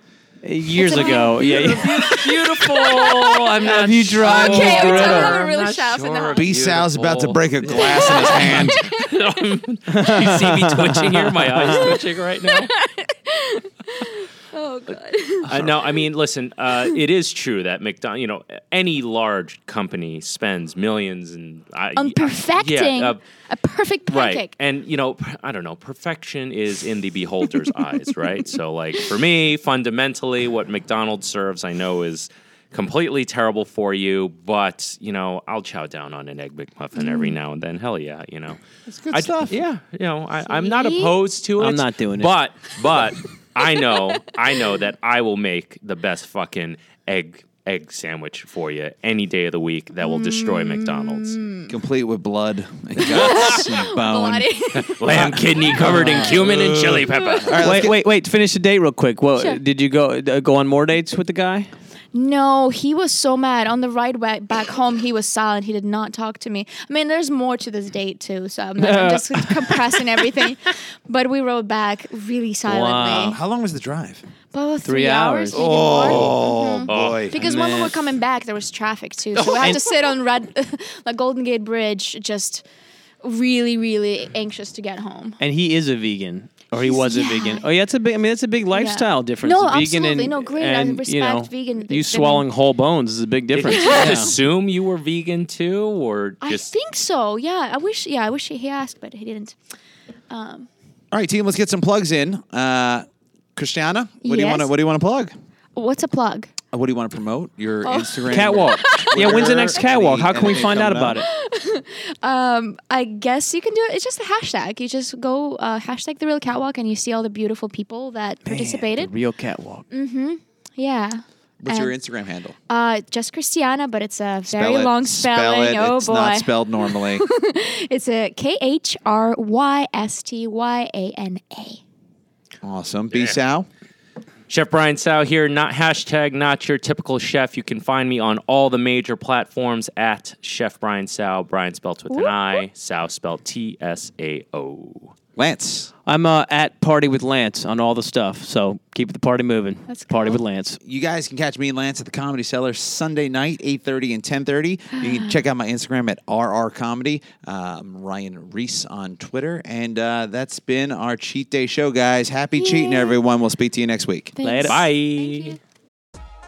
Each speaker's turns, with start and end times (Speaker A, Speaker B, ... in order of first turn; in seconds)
Speaker A: 0.4-2.1, 3.6-5.3, 9.9-12.0, 41.6-42.4, 57.6-61.7, 68.8-70.2, 72.7-73.4, 74.8-75.7, 77.4-78.0, 79.5-79.8, 85.4-94.4, 108.3-111.3, 118.5-119.9, 146.1-150.8, 164.4-164.9
Speaker B: 0.7-3.6, 4.2-6.5, 7.7-9.1, 11.7-16.0, 22.0-24.5, 37.0-37.4, 40.5-41.2, 43.6-44.3, 50.0-51.8, 53.0-56.2, 57.2-57.5, 59.4-59.6, 62.1-73.4, 74.5-82.7, 83.2-85.4, 86.8-87.7, 88.7-92.5, 93.7-94.4, 96.4-99.6, 100.3-100.7, 104.2-104.7, 105.8-106.5, 107.8-109.8, 111.1-119.1, 119.9-121.9, 122.7-131.8, 142.1-142.6, 149.9-150.4, 154.9-155.4, 162.6-163.2, 164.4-165.6
Speaker C: 0.8-12.7, 15.4-23.2, 24.1-51.4, 53.2-53.6, 54.8-57.7, 76.0-76.3, 76.9-77.5, 79.4-79.8, 93.5-96.7, 133.1-133.4, 134.5-145.1, 164.7-165.6
Speaker D: 6.4-8.8, 38.9-39.6, 51.7-58.0, 73.1-74.2, 75.5-77.4, 101.1-105.3, 106.7-111.2, 121.6-122.6, 124.5-127.2, 132.6-133.7, 145.4-145.9, 150.8-164.4